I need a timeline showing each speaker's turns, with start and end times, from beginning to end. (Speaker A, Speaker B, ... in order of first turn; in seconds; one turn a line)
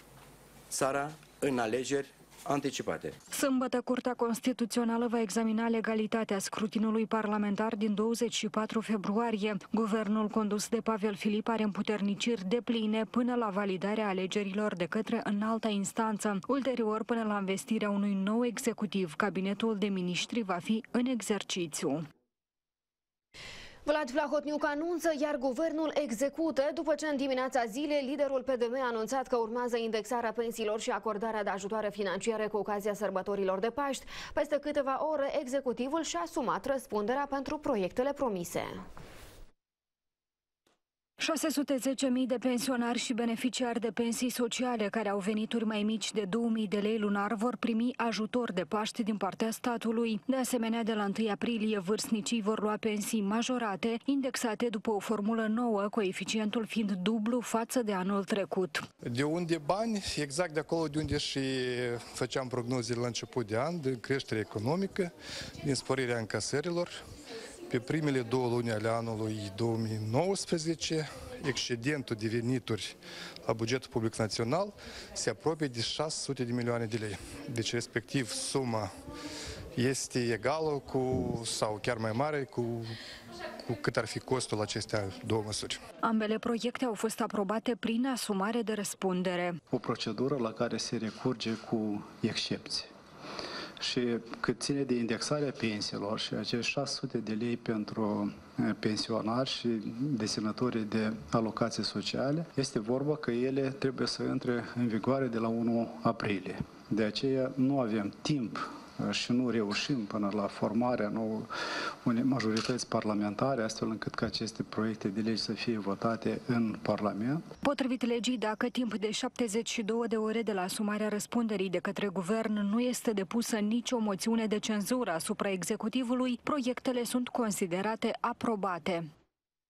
Speaker A: 0.7-3.2
Speaker B: 3.3-22.1
Speaker C: 23.9-38.8
Speaker B: 41.2-58.9
Speaker D: 59.0-67.0
Speaker D: 67.7-78.9
Speaker D: 79.8-83.0
Speaker D: 83.6-85.8
Speaker B: 86.0-89.6
Speaker E: 89.7-92.9
Speaker E: 93.8-111.5
Speaker E: 112.0-117.5
Speaker B: 117.6-129.1